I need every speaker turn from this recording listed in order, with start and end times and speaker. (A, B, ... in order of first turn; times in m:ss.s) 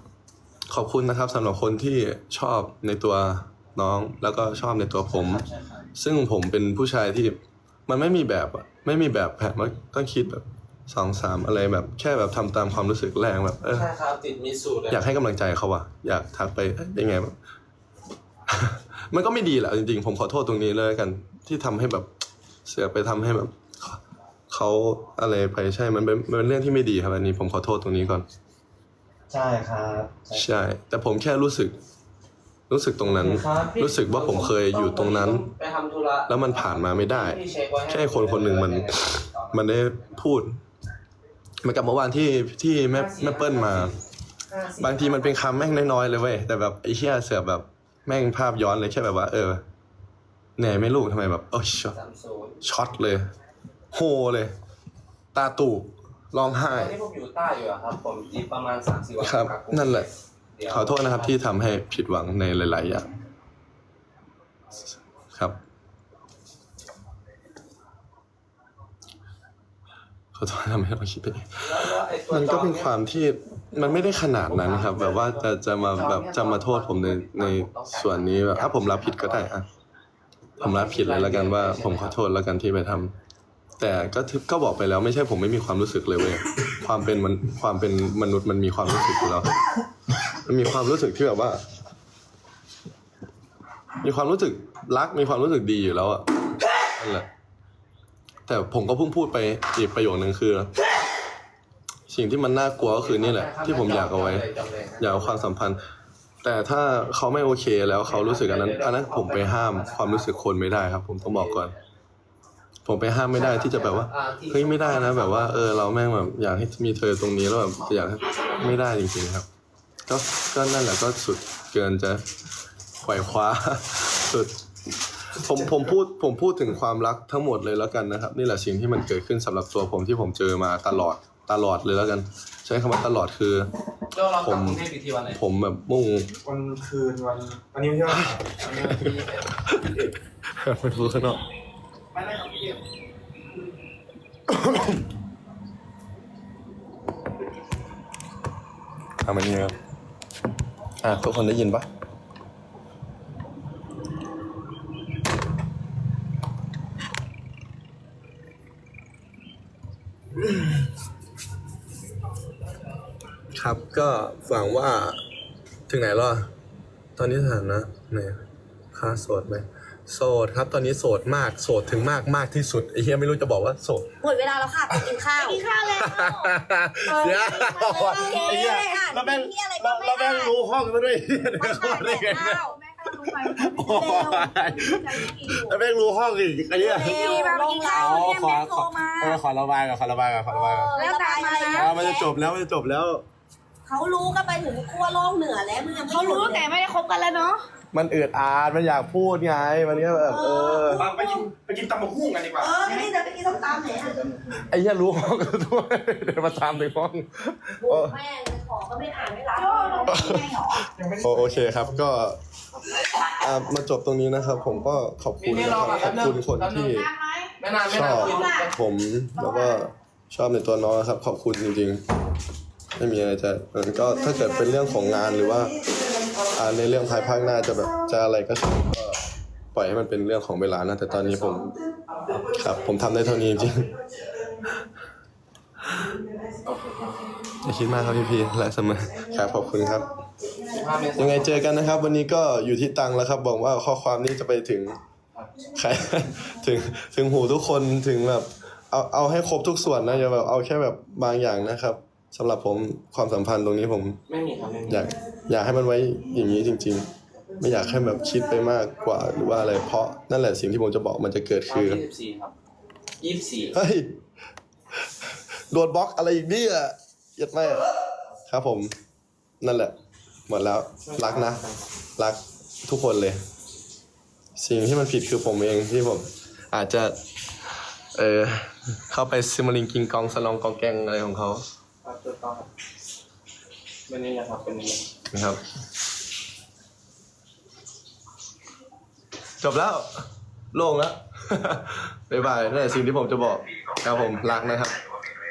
0:00.7-0:13.9 A
0:05.1-0:05.8 B
0:13.7-0:15.1 B
0:14.9-0:17.3 A
0:18.5-0:22.1 A
0:22.7-0:28.3 A
0:29.3-0:30.4 B
0:30.3-0:31.8 A
0:32.7-0:35.5 A
0:33.1-0:40.2 B
0:36.3-0:40.6 A
0:41.6-0:44.0 A
0:42.9-0:44.0 B
0:44.5-0:45.6 B
0:44.8-0:49.6 A
0:50.6-0:52.0 A
0:51.9-0:52.6 B
0:52.6-0:53.3 A
0:53.9-0:54.5 A
0:55.3-0:57.0 A
0:56.6-1:01.4 B
0:59.2-1:00.1 A
1:00.7-1:03.1 A
1:10.3-1:19.7 A
1:11.6-1:12.9 B
1:13.9-1:19.5 B
1:20.6-1:22.2 B
1:20.6-1:23.1 A
1:23.8-1:29.5 A
1:30.3-1:31.6 A
1:34.0-1:36.3 A
1:36.8-1:37.3 A
1:38.5-1:40.7 A
1:42.1-1:44.5 A
1:42.8-1:45.5 B
1:45.0-1:45.8 A
1:46.4-1:51.7 A
1:48.0-1:50.4 B
1:51.2-1:51.8 B
1:52.9-1:59.5 A
1:53.3-1:55.7 B
2:00.1-2:02.2 A
2:03.0-2:04.5 A
2:05.3-2:13.7 A
2:14.1-2:15.4 B
2:14.4-2:16.4 A
2:16.5-2:18.4 C
2:18.1-2:19.8 A
2:18.5-2:20.1 B
2:20.6-2:21.4 A
2:22.2-2:22.8 C
2:24.5-2:25.0 A
2:29.2-2:29.8 A
2:31.0-2:31.9 A
2:40.4-2:40.9 A
2:43.5-2:45.2 A
2:45.9-2:46.5 A
2:47.2-2:48.4 A
2:48.9-2:54.1 A
2:54.2-2:55.7 D
2:55.4-2:56.6 E
2:55.8-3:07.2 A
2:57.1-2:58.7 E
2:57.2-3:00.6 D
3:01.6-3:05.8 E
3:01.6-3:02.8 D
3:03.9-3:04.3 D
3:06.8-3:09.4 D
3:06.8-3:09.4 E
3:07.9-3:10.9 A
3:10.5-3:12.3 D
3:10.9-3:12.3 E
3:11.8-3:13.2 A
3:13.8-3:16.7 D
3:16.1-3:17.6 E
3:17.9-3:21.1 A
3:20.2-3:21.5 D
3:20.9-3:22.7 C
3:22.6-3:24.2 D
3:24.5-3:28.2 A
3:27.8-3:30.3 D
3:29.6-3:30.9 E
3:30.0-3:32.4 A
3:31.0-3:31.4 C
3:33.2-3:37.1 A
3:35.4-3:37.0 B
3:37.0-3:37.5 E
3:37.6-3:38.7 B
3:37.9-3:42.0 A
3:38.2-3:38.7 D
3:39.4-3:39.8 E
3:43.0-3:45.8 A
3:46.5-3:51.8 A
3:51.2-3:51.6 B
3:52.4-3:53.9 A
3:56.6-3:57.3 B
3:57.6-4:00.1 A
4:00.7-4:02.1 B
4:01.2-4:05.0 A
4:05.7-4:14.2 A
4:14.3-4:15.0 B
4:14.9-4:22.0 A
4:21.7-4:22.5 B
4:23.2-4:23.8 B
4:23.7-4:24.1 A
4:25.7-4:27.9 A
4:28.5-4:28.9 A
4:29.6-4:29.9 A
4:30.5-4:31.6 A
4:31.1-4:31.7 B
4:32.2-4:33.4 A
4:34.6-4:37.2 A
4:38.2-4:41.6 A
4:42.0-4:42.7 B
4:44.1-4:45.0 B
4:45.3-4:45.6 A
4:49.6-4:50.1 A
4:50.7-4:55.0 A